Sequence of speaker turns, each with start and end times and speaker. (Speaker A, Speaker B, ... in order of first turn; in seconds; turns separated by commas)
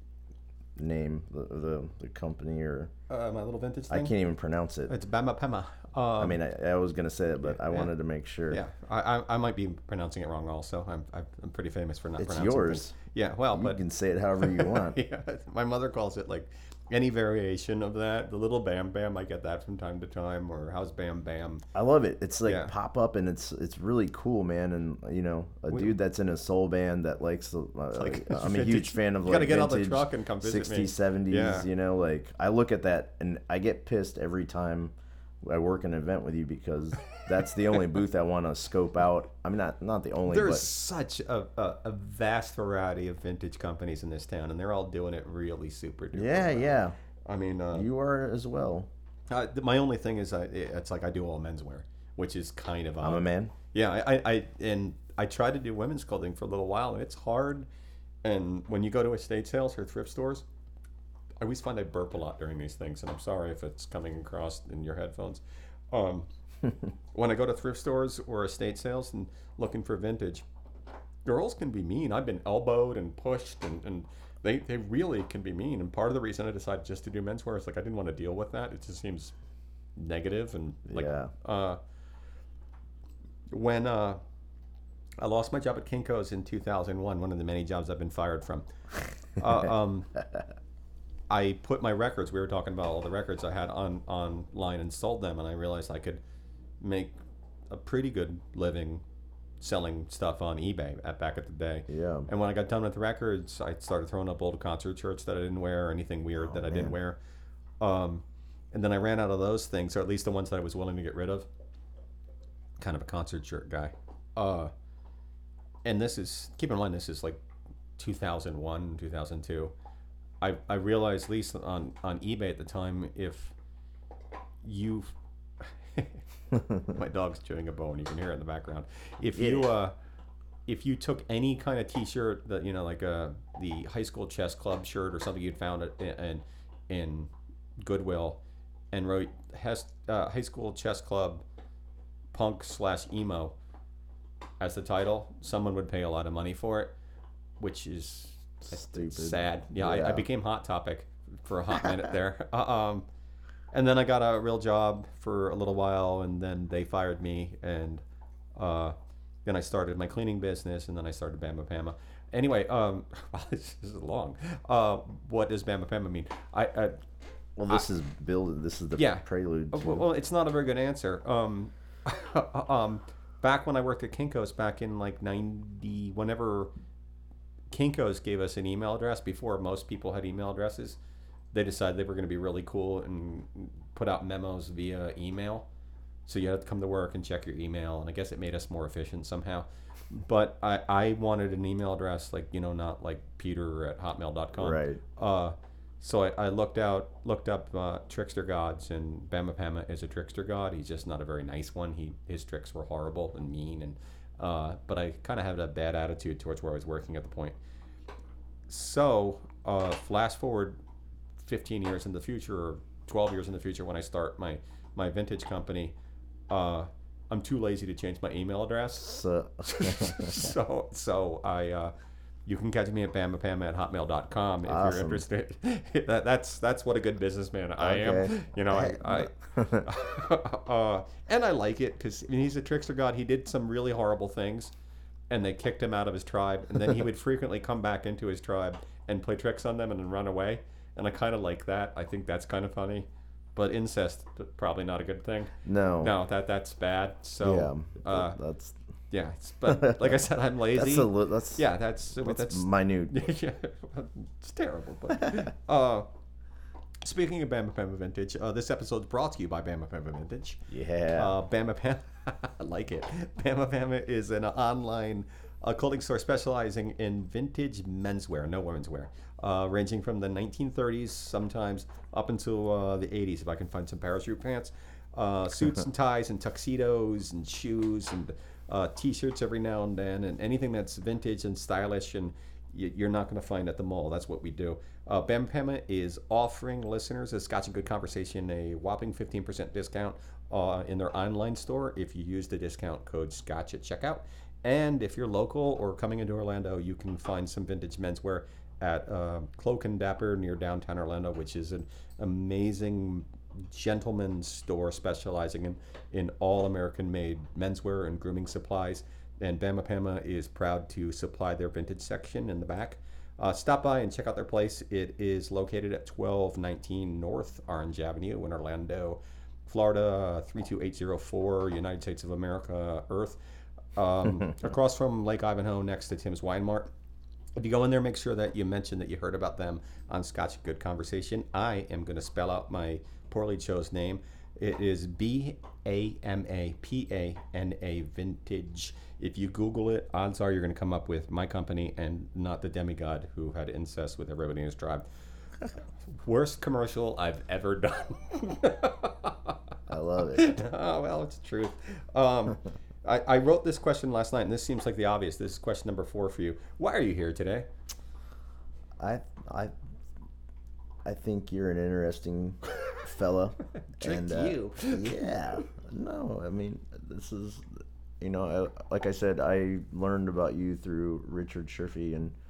Speaker A: 0.8-2.9, Speaker B: 3.1-4.1, Speaker A: 3.9-4.9, Speaker B: 4.9-6.4, Speaker A: 6.2-8.6, Speaker B: 7.5-7.9, Speaker B: 8.5-13.8, Speaker A: 12.2-12.9, Speaker A: 13.5-15.0, Speaker B: 14.4-21.6, Speaker A: 21.7-40.7, Speaker B: 22.4-22.7, Speaker B: 27.9-31.7, Speaker B: 40.2-46.7, Speaker A: 46.1-47.0, Speaker B: 47.3-47.9, Speaker A: 47.7-48.9, Speaker B: 49.3-57.7, Speaker A: 53.0-53.5, Speaker B: 58.2-60.4, Speaker B: 61.4-66.3, Speaker B: 67.1-70.4, Speaker B: 71.2-79.3, Speaker B: 80.0-81.8, Speaker A: 80.9-81.3, Speaker B: 83.5-84.2, Speaker B: 85.2-88.7, Speaker B: 89.3-90.1, Speaker B: 91.3-96.2, Speaker B: 96.8-97.1, Speaker B: 97.7-99.0, Speaker B: 99.6-107.2, Speaker A: 101.9-102.3, Speaker A: 106.4-107.0, Speaker B: 107.8-111.5, Speaker B: 112.8-114.7, Speaker B: 115.8-117.4, Speaker B: 118.0-119.7, Speaker B: 120.4-123.5, Speaker B: 124.6-126.2, Speaker B: 126.7-129.9, Speaker A: 129.3-129.7, Speaker B: 130.7-138.4, Speaker B: 138.9-141.4, Speaker B: 142.3-143.5, Speaker B: 144.6-146.9, Speaker B: 147.6-153.1, Speaker A: 148.7-150.2, Speaker B: 153.7-158.0, Speaker B: 158.6-167.0, Speaker A: 167.6-170.1, Speaker B: 168.9-176.7, Speaker B: 177.7-181.0, Speaker B: 181.5-185.7, Speaker B: 186.2-207.6, Speaker A: 194.6-195.0, Speaker B: 208.7-210.8, Speaker B: 211.4-215.9, Speaker B: 216.5-221.9, Speaker A: 219.0-220.5, Speaker B: 222.4-234.7, Speaker A: 224.6-225.2, Speaker A: 227.8-229.9, Speaker B: 235.3-248.4, Speaker A: 245.6-246.1, Speaker A: 247.4-248.8, Speaker B: 249.1-256.1, Speaker A: 249.7-250.2, Speaker A: 250.7-251.6, Speaker A: 252.2-253.3, Speaker B: 257.0-260.6, Speaker A: 260.7-261.3, Speaker B: 261.1-323.4, Speaker B: 323.9-326.9, Speaker B: 327.6-345.0, Speaker B: 346.2-349.6, Speaker A: 349.9-350.6, Speaker B: 350.3-357.7, Speaker A: 359.0-359.7, Speaker A: 361.0-367.7, Speaker B: 364.0-365.4, Speaker A: 368.2-372.3